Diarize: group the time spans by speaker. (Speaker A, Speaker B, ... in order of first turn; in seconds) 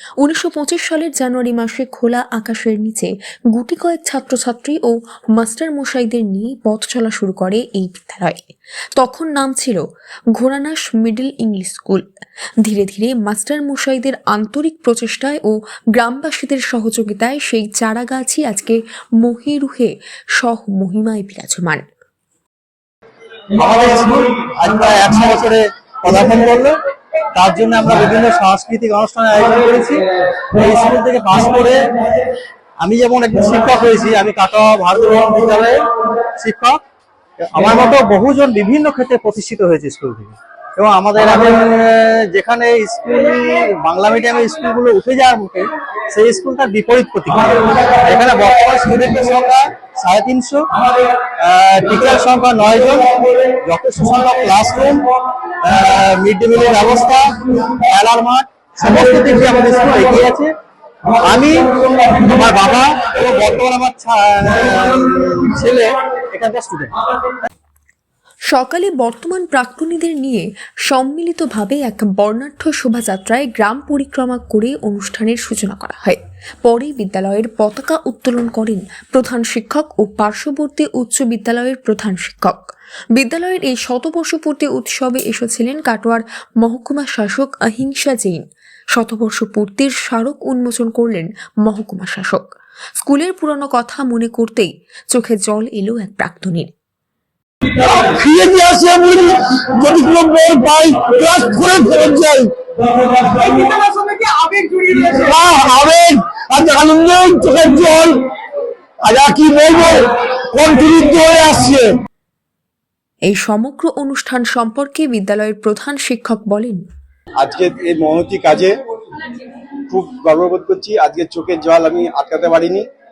Speaker A: 0.2-8.4, 9.0-9.8, 10.3-12.0, 12.6-21.8, 68.5-82.6, 83.2-88.4, 89.0-96.7, 113.3-116.8
Speaker B: 23.6-26.8, 27.4-31.8, 32.8-35.8, 36.4-36.8, 37.4-50.7, 51.4-55.0, 55.6-60.5, 61.2-66.9
Speaker C: 97.8-102.5, 105.2-108.2, 109.0-112.0
Speaker D: 117.4-118.7, 119.9-122.8